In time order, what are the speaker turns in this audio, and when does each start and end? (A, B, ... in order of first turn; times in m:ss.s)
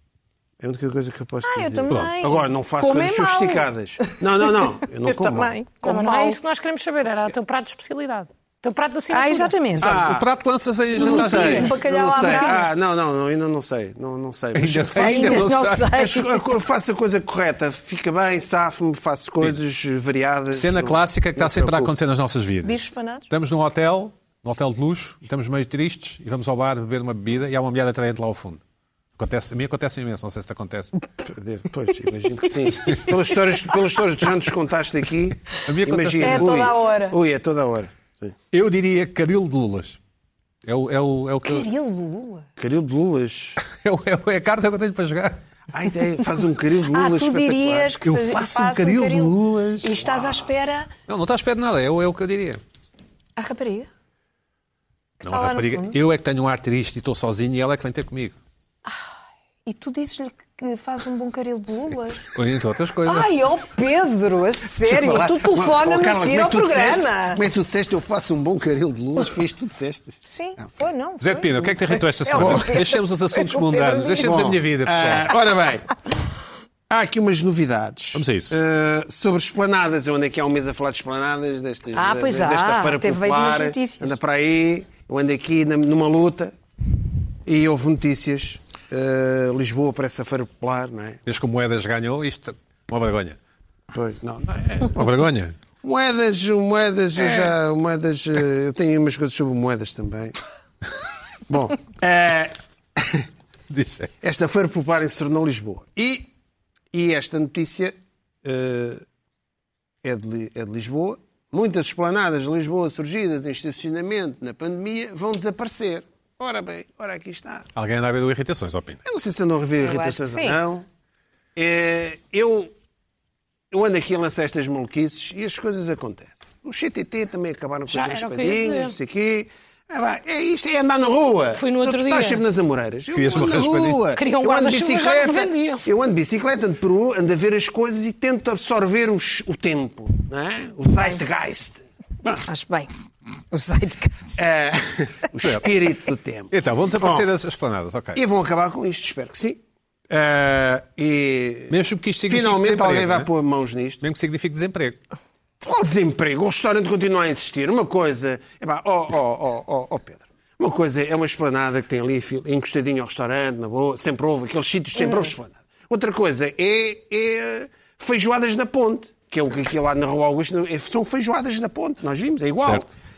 0:00.6-0:05.6 A
0:01.4-0:06.4 B
0:01.9-0:02.1 C
0:05.8-0:09.5 D
0:09.1-0:10.0 B
0:09.8-0:10.3 A
0:09.8-0:11.8 C
0:10.9-0:21.9 A
0:11.0-0:12.7 B
0:14.5-0:15.9 C
0:15.0-0:16.5 B
0:20.5-0:28.6 C
0:22.6-0:23.3 B
0:29.2-0:30.9 C
0:31.2-0:38.4 A
0:32.8-0:33.1 C
0:35.6-0:36.7 C
0:36.2-0:37.2 B
0:38.5-0:40.0 C
0:40.6-0:41.7 C
0:41.4-0:42.5 B
0:42.6-0:43.6 A
0:43.6-0:45.4 C
0:45.7-0:50.5 A
0:46.9-0:50.9 B
0:48.0-0:48.7 C
0:51.1-0:52.6 C
0:53.4-0:53.9 B
0:55.2-0:56.0 B
0:55.2-0:58.4 C
0:59.6-1:02.3 B
1:02.3-1:03.3 C
1:03.0-1:07.4 B
1:04.8-1:10.8 A
1:10.3-1:14.6 B
1:11.2-1:15.3 C
1:12.3-1:12.7 A
1:14.2-1:15.9 A
1:16.9-1:26.5 A
1:18.1-1:18.5 C
1:21.9-1:24.1 B
1:27.4-1:31.2 A
1:31.2-1:33.4 C
1:33.9-1:35.1 A
1:34.9-1:35.6 C
1:35.8-1:40.3 A
1:37.2-1:37.5 C
1:41.5-1:43.3 A
1:43.7-1:44.1 C
1:44.2-1:46.3 A
1:46.9-1:49.0 A
1:50.0-1:57.7 A
1:57.7-1:59.0 C
1:59.0-2:00.9 A
1:59.8-2:00.6 B
2:01.5-2:02.7 A
2:03.7-2:22.5 A
2:07.9-2:08.9 D
2:11.6-2:12.4 D
2:13.1-2:14.1 C
2:14.2-2:15.8 D
2:22.5-2:22.9 B
2:23.5-2:24.4 B
2:24.3-2:27.3 A
2:25.4-2:25.7 C
2:26.5-2:28.2 C
2:28.1-2:34.0 A
2:31.7-2:33.3 C
2:34.0-2:35.0 C
2:35.6-2:52.9 A